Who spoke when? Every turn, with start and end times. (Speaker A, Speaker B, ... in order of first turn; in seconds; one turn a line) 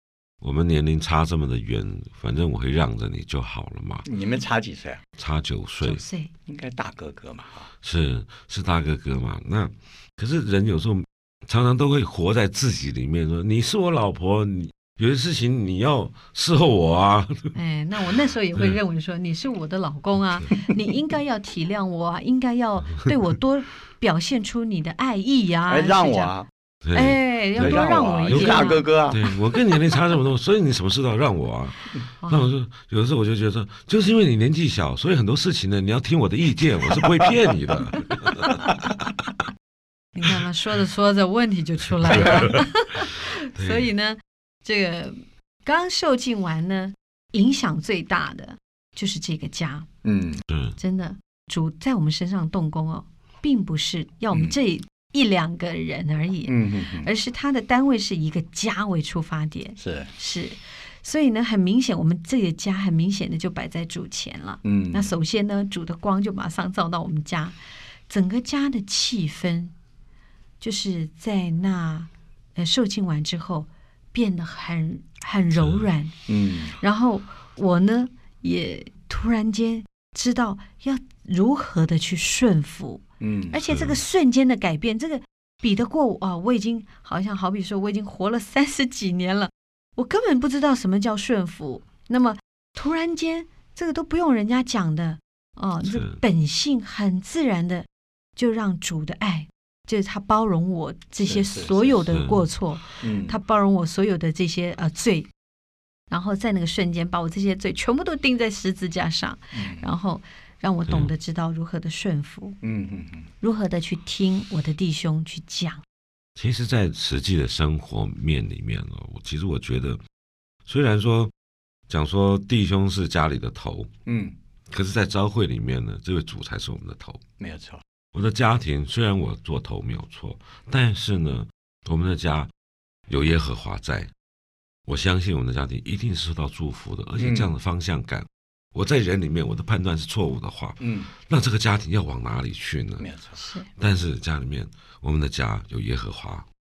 Speaker A: 0.4-4.0
Speaker B: 4.0-5.0
Speaker A: 5.2-6.0
Speaker C: 5.8-6.3
Speaker B: 6.5-7.7
Speaker A: 7.8-17.5
Speaker C: 17.5-26.3
Speaker B: 25.7-26.5
Speaker A: 26.8-39.1
Speaker C: 26.9-28.9
Speaker B: 27.6-29.4
Speaker C: 32.2-32.5
Speaker C: 38.2-38.7
Speaker C: 40.1-49.9
Speaker A: 42.0-43.0
Speaker A: 43.5-43.9
Speaker B: 50.0-50.4
Speaker A: 50.5-50.8
Speaker C: 50.8-67.5
Speaker B: 56.5-57.1
Speaker B: 59.8-60.1
Speaker B: 64.6-65.1
Speaker C: 68.1-69.7
Speaker C: 70.6-76.2
Speaker A: 75.6-75.8
Speaker B: 76.3-76.8
Speaker C: 76.8-105.3
Speaker B: 83.2-83.6
Speaker A: 83.7-84.0
Speaker A: 95.8-96.2
Speaker B: 101.2-102.0
Speaker A: 102.1-102.4
Speaker B: 103.0-103.4
Speaker C: 106.1-112.6
Speaker B: 109.5-109.9
Speaker B: 112.6-113.3
Speaker C: 113.4-115.8
Speaker A: 116.3-120.0
Speaker A: 120.7-121.3
Speaker A: 121.9-123.9
Speaker B: 124.0-124.3
Speaker A: 124.7-127.2
Speaker B: 127.4-127.8
Speaker A: 128.1-132.5
Speaker A: 133.1-134.1
Speaker A: 134.9-143.1
Speaker B: 137.2-137.5
Speaker B: 140.8-141.1
Speaker B: 143.0-143.4
Speaker C: 143.4-143.7
Speaker A: 143.8-146.4